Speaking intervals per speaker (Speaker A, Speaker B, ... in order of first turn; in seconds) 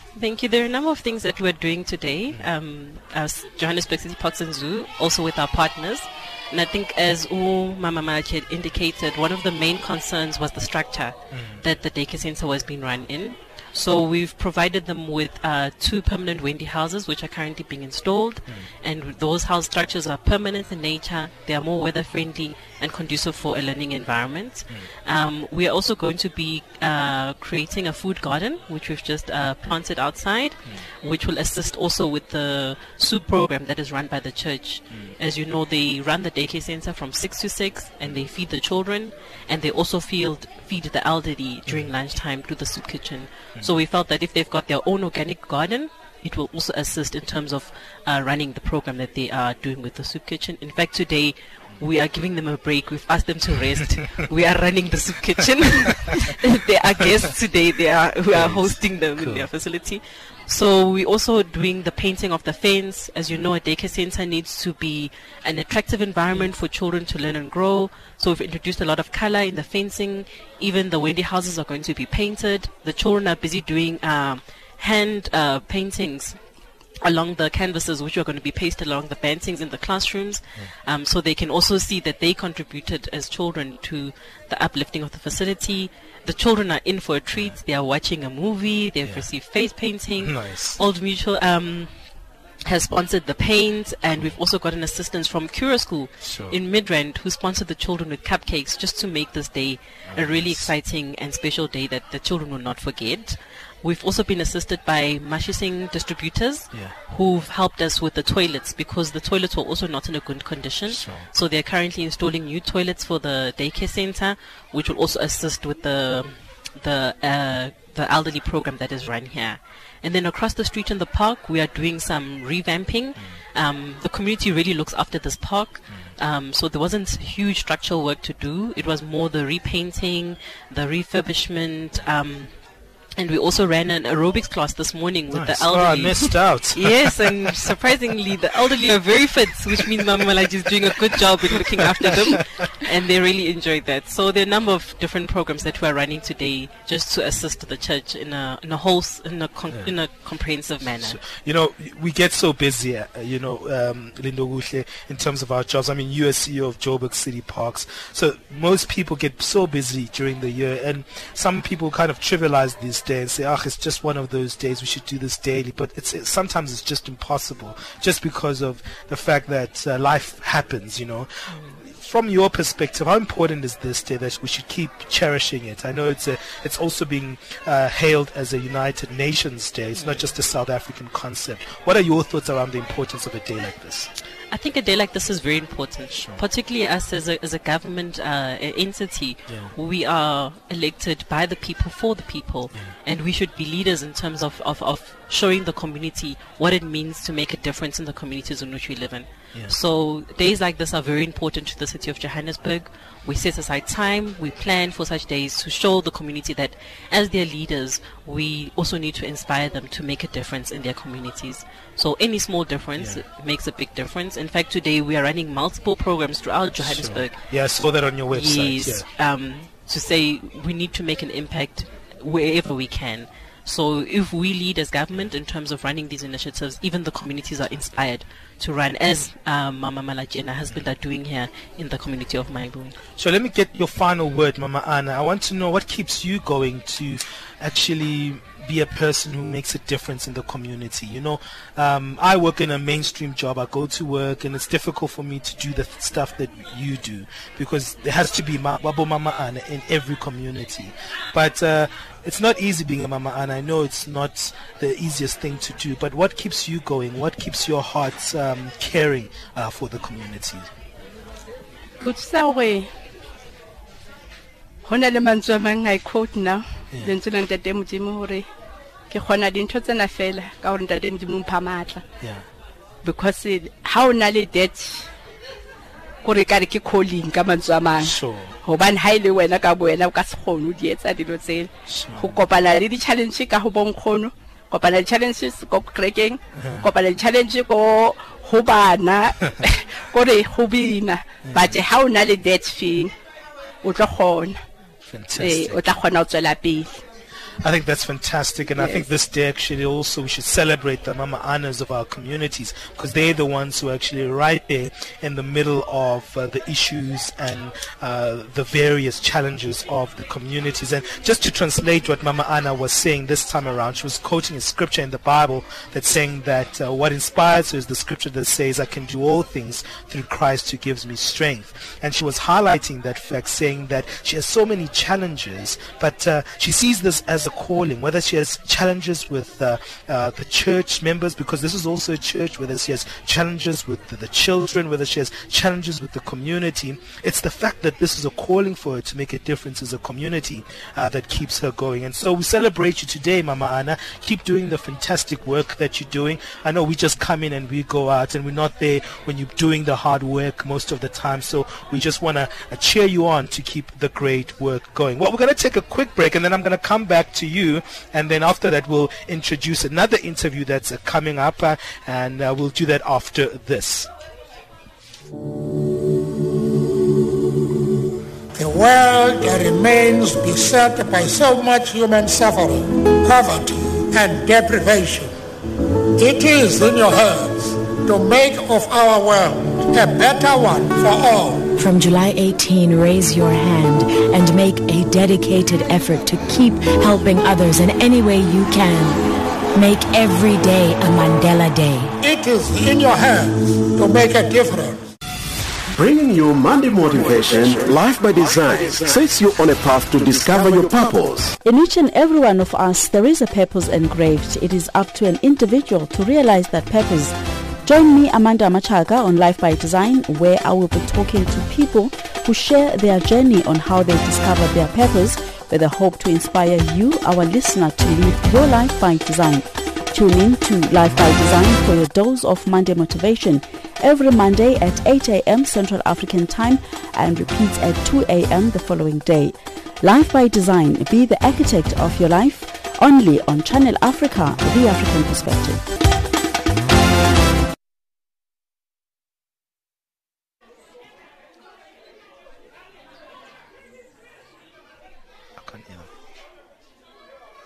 Speaker A: 0.2-76.4, 77.0-92.0, 92.7-132.5, 133.2-151.2, 180.0-180.2, 184.5-217.5, 218.3-233.0
Speaker B: 11.3-11.6, 41.7-41.9, 58.3-59.5, 90.2-90.8, 96.2-96.6, 100.1-100.7, 110.9-111.3, 135.3-137.8, 142.1-142.4, 151.0-184.1, 186.1-186.4, 213.0-213.2, 216.8-219.1, 233.2-260.7, 266.9-267.2, 272.2-272.4, 278.0-278.6, 281.9-282.5, 286.6-286.9, 291.4-291.8, 295.1-296.0, 297.6-364.1, 445.6-446.1
Speaker C: 262.0-262.9, 264.9-268.5, 269.1-272.0, 273.0-275.0, 276.2-293.1, 293.8-294.6, 295.4-297.0, 298.8-299.0
Speaker D: 368.6-375.4, 376.2-381.7, 392.2-395.0
Speaker E: 381.8-392.1
Speaker F: 395.9-401.5
Speaker G: 401.6-435.8